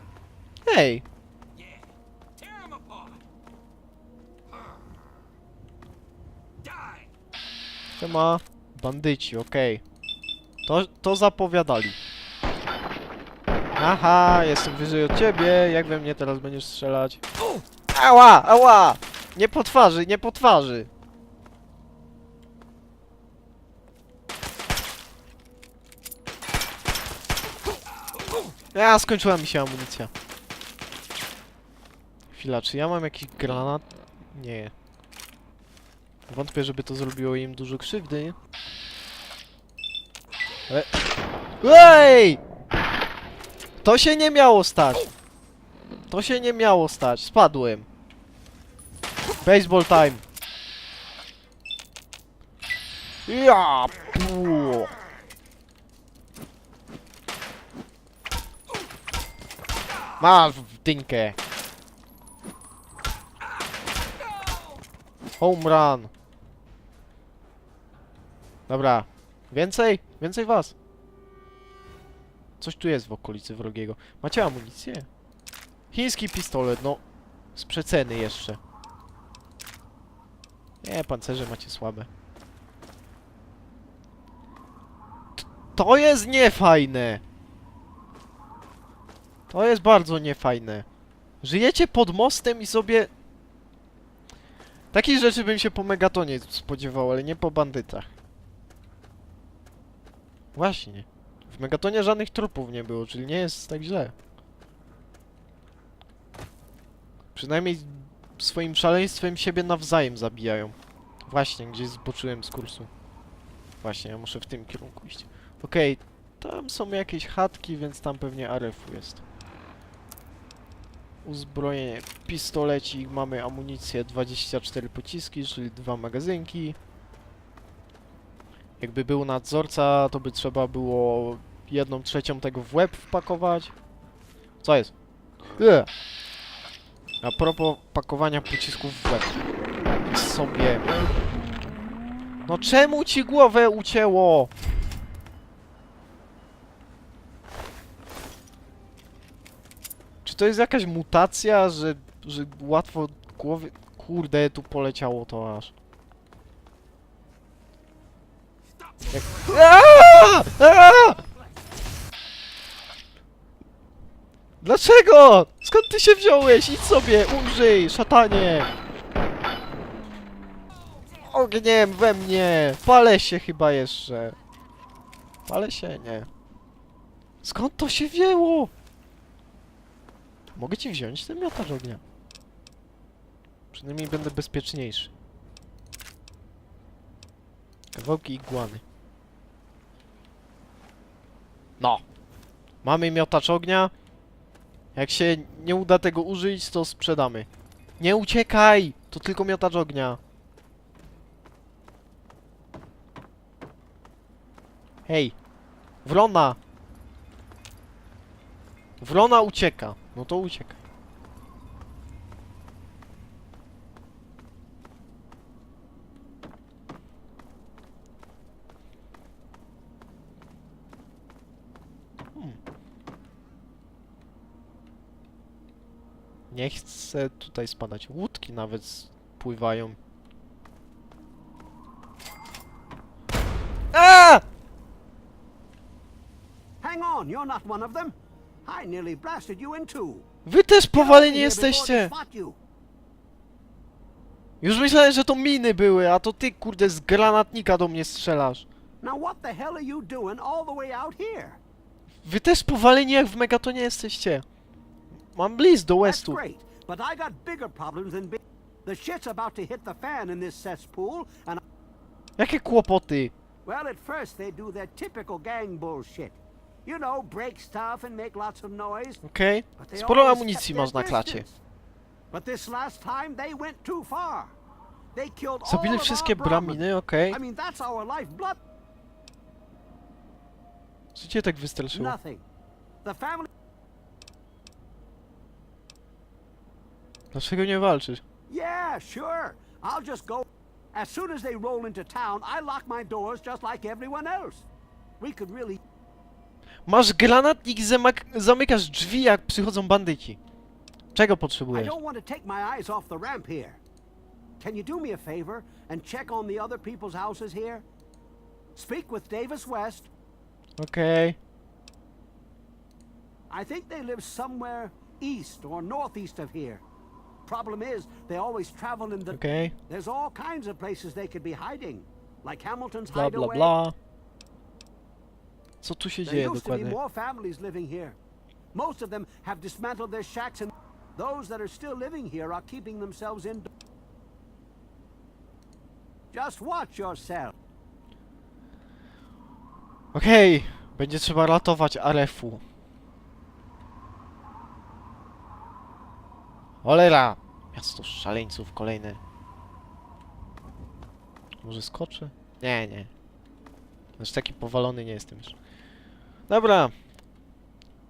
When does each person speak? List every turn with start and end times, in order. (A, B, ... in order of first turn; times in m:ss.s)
0:00.6-0:01.0 A
0:02.6-0:03.0 B
0:08.0-0:09.8 A
0:10.7-0:12.0 A
0:13.8-0:17.2 A
0:17.9-0:20.9 A
0:28.7-0:30.1 A
0:32.3-0:34.7 A
0:36.3-0:38.4 A
0:41.6-0:42.4 A
0:43.8-0:45.1 A
0:46.1-0:47.9 A
0:49.4-0:50.2 A
0:53.3-0:54.9 A
1:00.2-1:01.4 A
1:05.4-1:06.1 A
1:08.7-1:10.7 A
1:12.6-1:15.1 A
1:15.9-1:17.0 A
1:17.6-1:18.6 A
1:20.8-1:22.1 A
1:25.4-1:27.2 A
1:29.5-1:30.8 A
1:31.4-1:33.1 A
1:34.9-1:38.1 A
1:40.6-1:44.1 A
1:47.4-1:50.8 A
1:51.3-1:52.9 A
1:53.8-1:59.2 A
2:01.2-2:06.8 A
2:08.8-2:13.7 A
2:14.6-2:14.9 A
2:15.6-2:15.9 A
2:17.2-2:19.4 A
2:20.0-2:20.9 A
2:22.5-2:24.5 A
2:30.2-2:35.7 A
2:39.1-2:41.2 A
2:44.6-2:48.7 A
2:51.2-2:54.4 A
2:55.5-2:56.3 A
2:57.4-2:58.7 A
3:00.5-3:02.0 A
3:03.7-3:05.1 A
3:07.9-3:08.8 A
3:12.8-3:13.9 A
3:15.0-3:17.5 A
3:18.0-3:20.2 A
3:25.1-3:25.4 A
3:26.0-3:26.6 A
3:29.0-3:30.8 A
3:46.5-3:50.0 A
3:53.9-3:54.4 A
3:56.8-3:58.2 B
3:58.7-4:00.2 B
4:00.4-4:02.1 A
4:01.0-4:02.6 B
4:04.6-4:08.6 A
4:09.0-4:11.6 B
4:12.2-4:14.4 A
4:15.3-4:16.4 A
4:16.0-4:21.6 B
4:22.4-4:23.3 A
4:23.6-4:29.2 B
4:29.2-4:31.5 A
4:29.8-4:31.6 B
4:32.3-4:34.6 B
4:35.2-4:38.6 B
4:35.6-4:37.4 A
4:41.2-4:42.2 A
4:41.9-4:42.4 B
4:43.0-4:43.5 B
4:47.3-4:48.2 A
4:48.5-4:54.7 B
4:55.2-4:55.8 B
4:56.9-5:00.4 A
5:01.1-5:02.0 A
5:01.7-5:03.8 B
5:04.6-5:07.8 B
5:08.8-5:10.1 B
5:10.8-5:11.4 A
5:13.5-5:16.8 B
5:17.5-5:23.7 B
5:19.3-5:19.8 A
5:23.1-5:24.0 A
5:25.8-5:27.0 A
5:26.2-5:28.2 B
5:28.7-5:33.7 B
5:36.3-5:37.5 B
5:40.1-5:42.6 A
5:46.8-5:49.2 A
5:51.6-5:53.1 A
5:54.2-5:55.6 A
5:56.5-5:56.9 A